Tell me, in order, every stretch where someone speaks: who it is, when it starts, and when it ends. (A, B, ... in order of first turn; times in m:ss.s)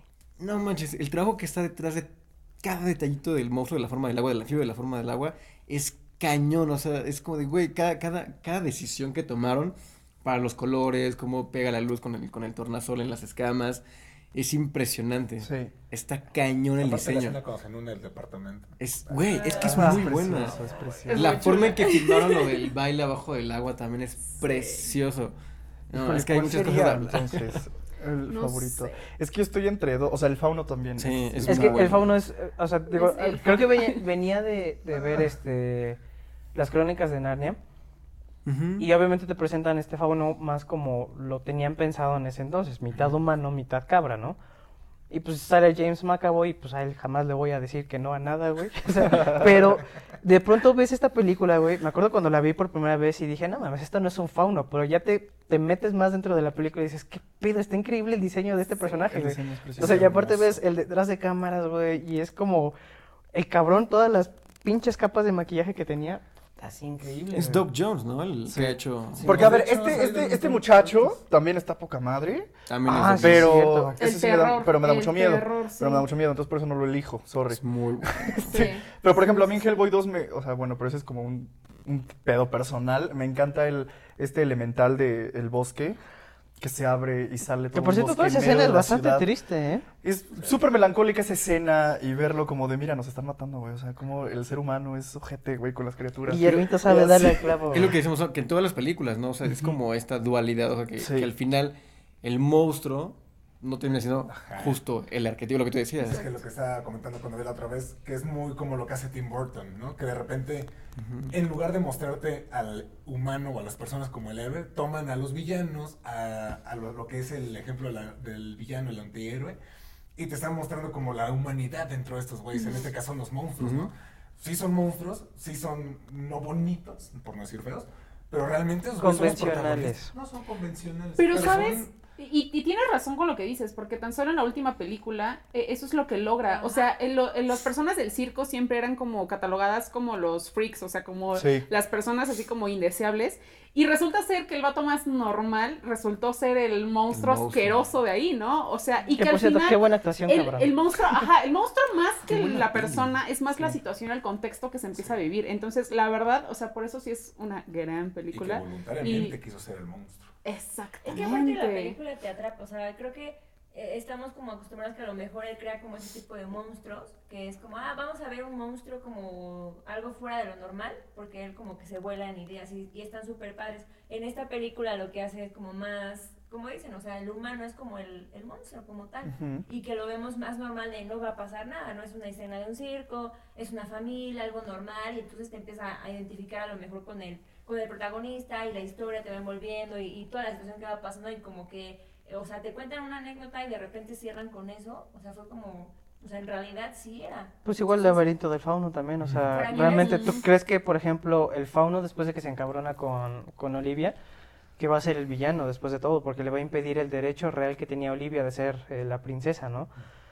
0:00.4-0:02.1 A
0:02.6-0:13.8 A
0:14.3-0:17.4 A
0:15.4-0:15.7 B
0:16.8-0:21.1 C
0:18.8-0:25.3 A
0:19.6-0:21.6 B
0:21.1-0:22.5 D
0:25.9-0:27.6 A
0:25.9-0:32.0 B
0:28.3-0:29.0 D
0:31.0-0:32.1 A
0:31.5-0:36.0 E
0:32.9-0:34.0 D
0:36.5-0:37.6 E
0:38.4-0:38.9 A
0:38.8-0:44.4 E
0:45.1-1:02.8 E
0:49.1-0:49.4 B
0:59.0-1:00.6 B
1:03.3-1:07.6 E
1:07.4-1:09.4 A
1:08.5-1:12.5 B
1:09.2-1:09.5 E
1:09.2-1:11.2 C
1:12.7-1:13.6 A
1:12.9-1:13.9 E
1:13.2-1:26.0 B
1:14.0-1:16.1 D
1:17.5-1:18.7 A
1:18.4-1:18.8 D
1:26.6-1:29.3 B
1:27.7-1:29.8 E
1:30.0-1:37.8 B
1:36.3-1:37.9 E
1:37.7-1:46.3 A
1:39.5-1:39.7 B
1:41.0-1:41.3 B
1:44.3-1:44.8 C
1:46.0-1:50.7 C
1:51.0-1:51.3 A
1:51.3-1:59.6 C
2:00.2-2:11.9 C
2:02.5-2:02.9 D
2:03.6-2:03.9 A
2:09.0-2:10.1 E
2:11.2-2:39.4 D
2:16.5-2:16.9 F
2:21.3-2:21.6 B
2:27.1-2:27.9 A
2:29.1-2:30.8 E
2:32.3-2:33.7 A
2:38.3-2:40.3 C
2:40.4-2:42.0 D
2:41.0-3:18.3 F
2:59.2-2:59.6 B
3:17.6-3:24.2 E
3:19.5-3:20.4 F
3:19.7-3:20.4 D
3:24.8-3:29.9 E